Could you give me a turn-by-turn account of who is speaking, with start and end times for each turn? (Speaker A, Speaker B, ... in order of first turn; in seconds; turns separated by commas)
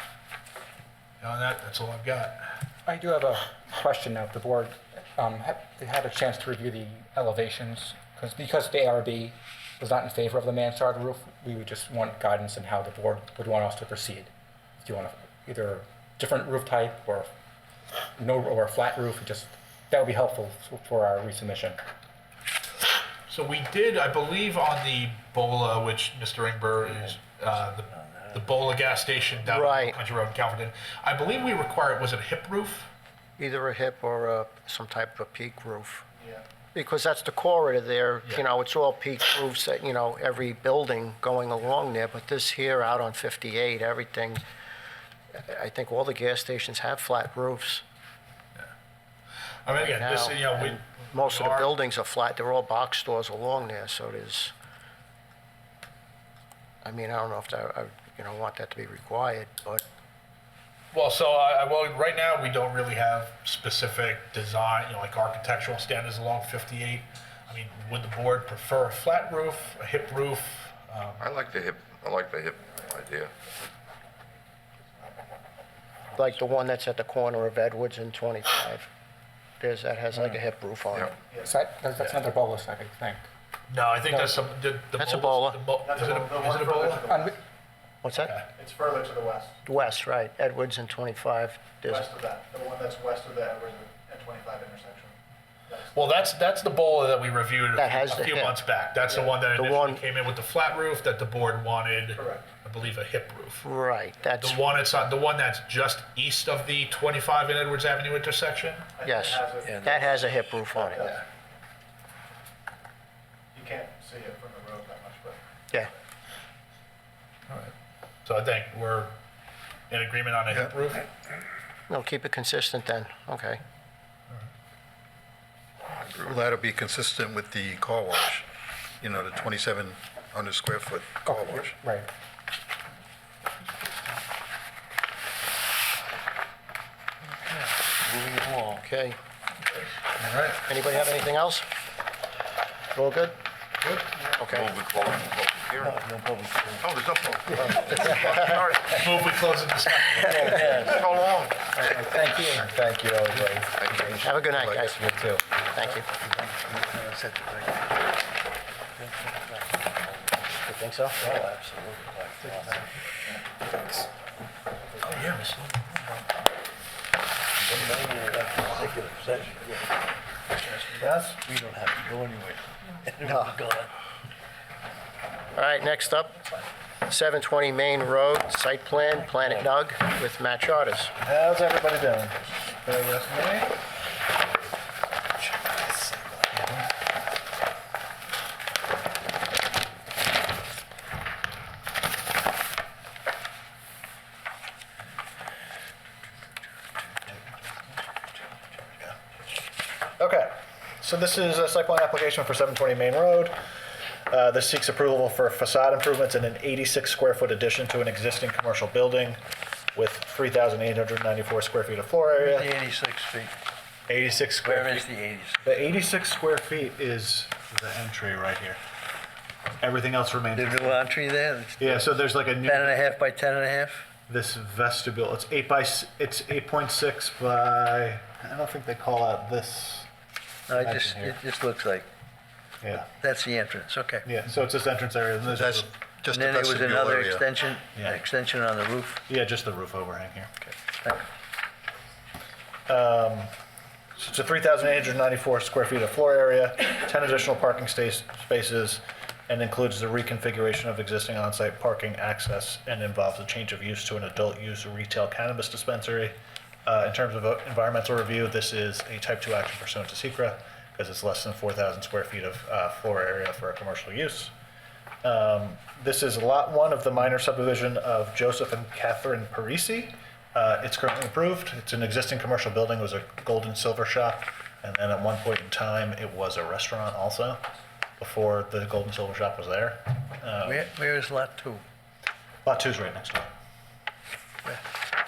Speaker A: 1.2-2.5, Speaker B: 2.9-14.3, Speaker B: 14.8-17.3, Speaker B: 18.2-21.8, Speaker A: 23.3-32.9, Speaker C: 27.9-28.5, Speaker D: 29.4-30.0, Speaker D: 33.4-36.1, Speaker D: 36.7-44.4, Speaker D: 45.4-47.8, Speaker A: 49.7-51.7, Speaker D: 49.8-54.5, Speaker D: 56.8-59.8, Speaker A: 60.9-71.3, Speaker E: 71.2-73.3, Speaker D: 76.1-78.9, Speaker D: 79.6-81.2, Speaker F: 81.2-81.5, Speaker B: 81.4-83.2, Speaker A: 83.7-87.0, Speaker B: 84.1-84.4, Speaker D: 85.0-85.6, Speaker F: 85.8-87.3, Speaker B: 87.1-87.4, Speaker D: 88.0-88.4, Speaker A: 88.2-88.5, Speaker F: 88.5-89.6, Speaker D: 89.7-92.1, Speaker F: 91.9-95.1, Speaker F: 95.7-96.1, Speaker A: 96.0-103.7, Speaker D: 97.8-98.6, Speaker D: 99.6-100.0, Speaker F: 102.2-102.5, Speaker D: 103.6-104.6, Speaker A: 104.4-108.9, Speaker F: 109.0-111.2, Speaker D: 109.0-111.2, Speaker C: 109.7-110.2, Speaker F: 113.5-115.4, Speaker A: 118.2-119.2, Speaker A: 119.9-121.0, Speaker D: 121.9-123.6, Speaker G: 126.1-128.5, Speaker G: 129.0-131.8, Speaker B: 131.3-132.1, Speaker C: 137.4-138.8, Speaker D: 138.8-139.2, Speaker A: 140.2-140.6, Speaker D: 140.7-141.7, Speaker D: 142.9-143.4, Speaker D: 144.4-144.7, Speaker E: 144.5-146.0, Speaker C: 145.8-148.1, Speaker E: 146.8-149.1, Speaker D: 147.8-148.3, Speaker A: 148.9-150.5, Speaker C: 150.2-151.0, Speaker E: 150.4-152.2, Speaker B: 151.8-152.8, Speaker E: 153.7-155.0, Speaker D: 154.2-155.1, Speaker D: 155.7-156.1, Speaker C: 155.8-157.9, Speaker C: 159.0-160.4, Speaker D: 160.7-161.4, Speaker C: 161.2-163.0, Speaker A: 165.0-166.2, Speaker C: 167.6-169.9, Speaker C: 170.9-173.9, Speaker D: 173.2-173.5, Speaker D: 175.6-176.4, Speaker D: 177.1-181.1, Speaker C: 179.4-179.7, Speaker F: 181.2-183.8, Speaker F: 185.6-186.9, Speaker F: 200.2-203.6, Speaker F: 204.3-209.4, Speaker F: 209.9-212.7, Speaker C: 212.4-213.6, Speaker F: 214.1-215.1, Speaker C: 214.6-215.6, Speaker F: 215.6-218.8, Speaker F: 219.8-221.0, Speaker C: 220.5-224.1, Speaker F: 221.8-223.1, Speaker F: 224.3-230.1, Speaker C: 230.7-232.1, Speaker F: 230.7-231.4, Speaker F: 232.8-233.1, Speaker C: 233.2-234.3, Speaker F: 234.2-235.9, Speaker G: 235.5-237.5, Speaker C: 236.3-239.2, Speaker F: 238.0-238.2, Speaker F: 239.3-240.5, Speaker C: 240.7-241.3, Speaker F: 242.9-243.5, Speaker F: 244.2-264.5, Speaker F: 265.2-277.6, Speaker F: 278.2-280.9, Speaker C: 280.6-281.8, Speaker F: 282.6-283.5